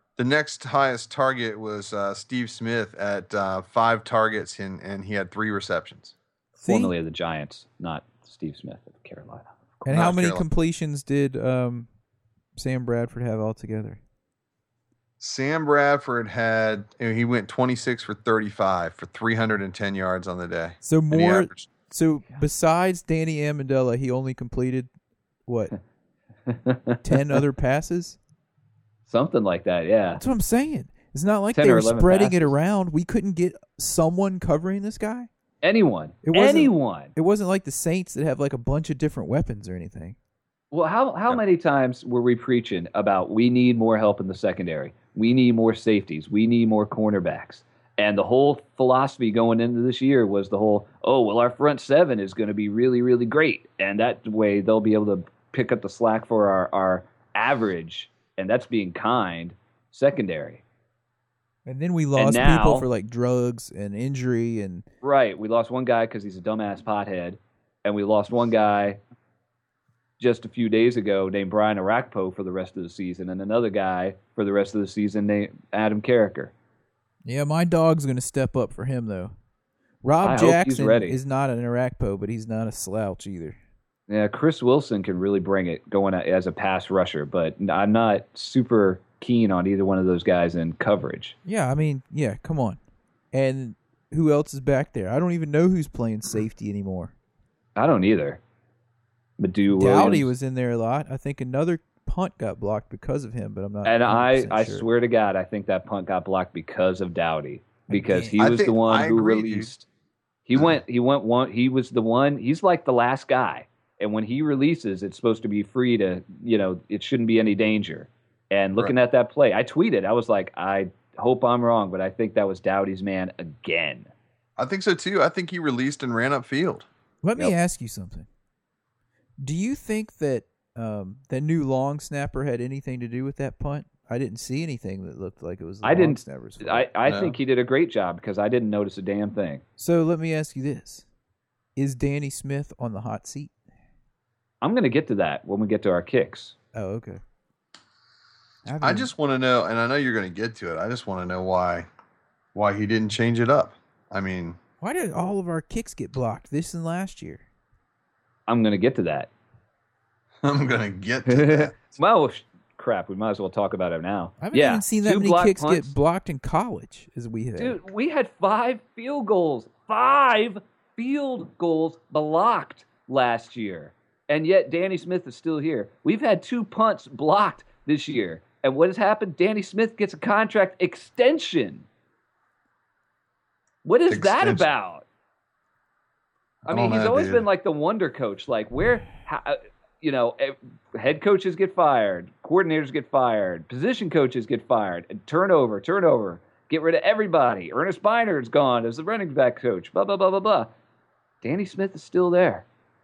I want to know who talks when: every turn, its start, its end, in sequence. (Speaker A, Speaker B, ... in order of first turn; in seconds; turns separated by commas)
Speaker A: 0.2-6.2, Speaker B: 6.6-6.9, Speaker C: 6.7-9.8, Speaker B: 9.8-11.9, Speaker A: 9.9-10.4, Speaker B: 12.6-14.0, Speaker A: 15.2-21.7, Speaker B: 20.8-24.9, Speaker B: 25.5-25.7, Speaker C: 26.5-27.4, Speaker B: 27.0-28.2, Speaker C: 29.1-30.2, Speaker B: 30.2-35.3, Speaker C: 31.5-32.5, Speaker C: 35.6-37.1, Speaker B: 36.2-40.2, Speaker C: 40.7-60.6, Speaker B: 61.7-64.9, Speaker C: 62.2-62.9, Speaker C: 65.0-69.0, Speaker C: 70.2-76.5, Speaker B: 77.2-79.3, Speaker B: 80.0-83.6, Speaker C: 80.2-81.2, Speaker C: 84.1-91.4, Speaker B: 91.5-92.8, Speaker B: 93.3-97.1, Speaker C: 97.8-98.4, Speaker C: 99.4-100.3, Speaker B: 99.7-104.9, Speaker C: 103.8-109.9, Speaker B: 107.9-108.5, Speaker A: 108.4-109.7, Speaker C: 110.5-124.1, Speaker A: 124.6-126.9, Speaker B: 127.2-128.3, Speaker B: 129.4-136.9, Speaker C: 135.8-139.6, Speaker A: 137.1-137.4, Speaker B: 139.8-141.1, Speaker B: 141.8-143.5, Speaker C: 144.6-146.6, Speaker B: 146.7-147.2, Speaker B: 148.7-149.1, Speaker A: 148.8-151.9, Speaker A: 152.6-154.6, Speaker B: 154.8-157.4, Speaker C: 158.5-159.3, Speaker A: 160.4-162.0, Speaker C: 161.3-165.9, Speaker B: 164.4-167.8, Speaker C: 167.6-181.9, Speaker C: 183.8-185.1, Speaker A: 184.1-184.7, Speaker C: 186.7-200.7, Speaker A: 186.7-187.4, Speaker C: 201.4-202.7